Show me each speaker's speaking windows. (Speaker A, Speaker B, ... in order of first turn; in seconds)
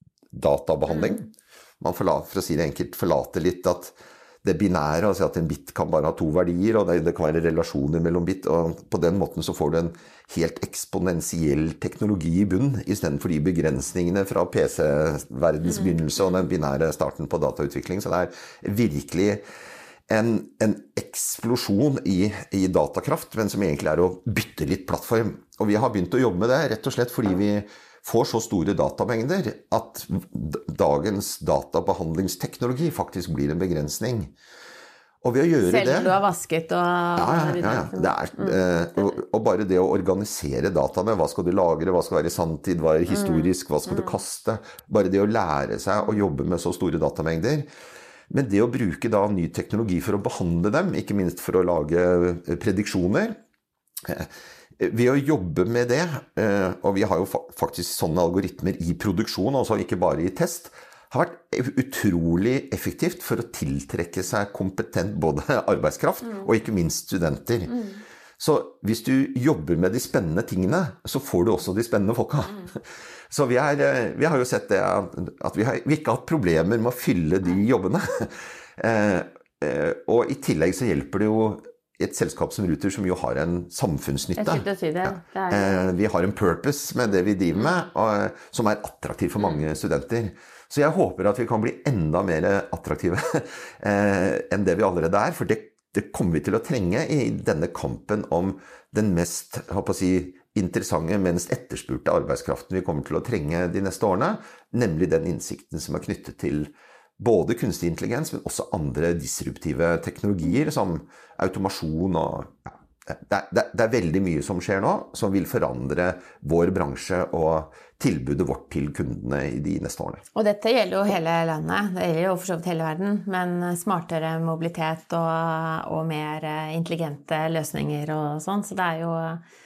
Speaker A: 0.3-19.4, 20.1-34.3, 35.2-36.2, 37.2-47.7, 48.3-53.4, 54.0-67.9, 68.4-120.2
Speaker B: 35.6-38.6, 43.1-44.2, 67.7-68.0, 84.4-85.8, 120.3-129.4